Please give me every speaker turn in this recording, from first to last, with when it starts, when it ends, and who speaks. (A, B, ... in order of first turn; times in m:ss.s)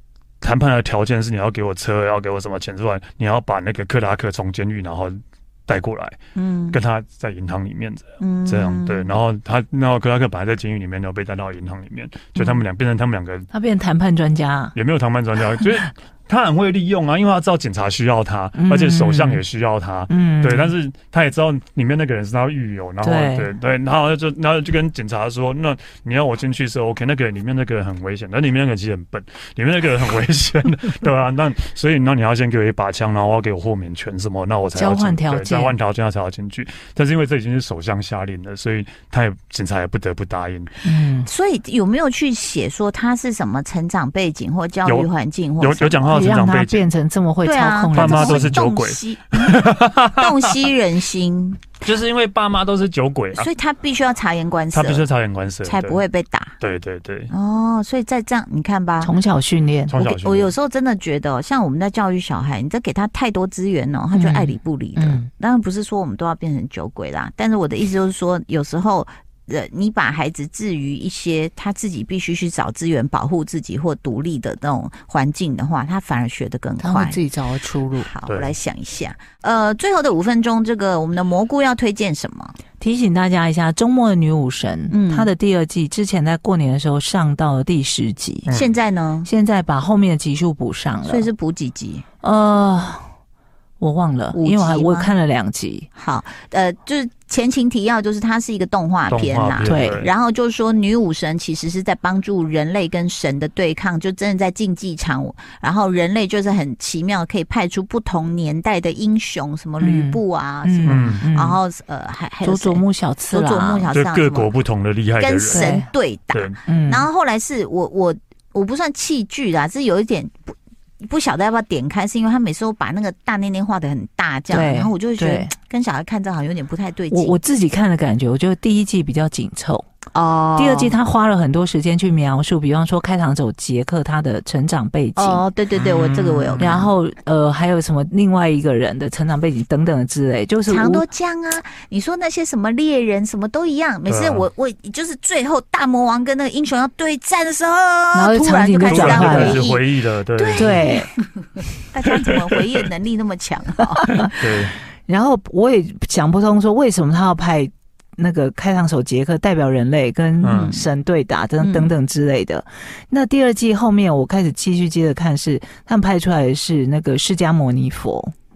0:00.4-0:06.2 A
0:06.4-0:06.8 B
0:06.7-0:13.5 A
0:08.2-0:09.1 B
0:12.4-0:12.6 B
0:13.5-0:14.8 C
0:14.7-0:40.7 A
0:18.6-0:19.4 C
0:20.1-0:20.8 C
0:23.0-0:23.5 C
0:34.8-0:35.8 C
0:40.8-0:41.3 C
0:41.2-0:46.2 B
0:44.8-0:46.9 A
0:46.1-0:48.5 C
0:47.4-0:51.8 B
0:47.9-0:50.5 A
0:51.8-0:53.5 A
0:53.3-0:55.1 B
0:54.7-0:56.0 A
0:55.6-0:56.6 B
0:56.6-0:57.3 A
0:57.3-0:59.1 B
0:59.0-1:00.0 C
0:59.9-1:00.5 A
1:00.0-1:17.2 B
1:04.1-1:05.3 C
1:16.8-1:18.1 C
1:18.0-1:22.6 B
1:18.3-1:18.5 A
1:22.8-1:28.5 C
1:24.9-1:25.3 B
1:28.5-1:28.7 A
1:28.5-1:29.3 B
1:29.2-1:31.3 C
1:31.0-1:32.0 B
1:32.2-1:33.1 C
1:33.8-1:35.9 C
1:34.3-1:35.1 B
1:36.0-1:54.5 B
1:39.1-1:40.1 A
1:39.6-1:40.0 C
1:49.8-1:51.6 C
1:50.9-1:51.3 A
1:52.4-1:53.9 C
1:53.9-1:55.7 A
1:55.2-2:07.4 B
1:55.5-1:55.9 C
1:56.3-1:56.6 A
1:56.7-1:57.1 C
2:04.5-2:05.5 C
2:07.1-2:09.9 C
2:10.1-2:11.0 B
2:10.6-2:15.4 C
2:15.2-2:16.9 B
2:15.8-2:16.8 A
2:16.6-2:21.1 C
2:20.7-2:34.3 B
2:24.1-2:24.5 A
2:28.1-2:29.6 C
2:28.9-2:30.9 A
2:30.6-2:31.1 C
2:32.0-2:32.9 A
2:34.0-2:34.3 C
2:34.3-2:34.8 A
2:35.0-2:48.3 C
2:40.4-2:40.8 A
2:40.5-2:40.8 B
2:41.6-2:41.9 B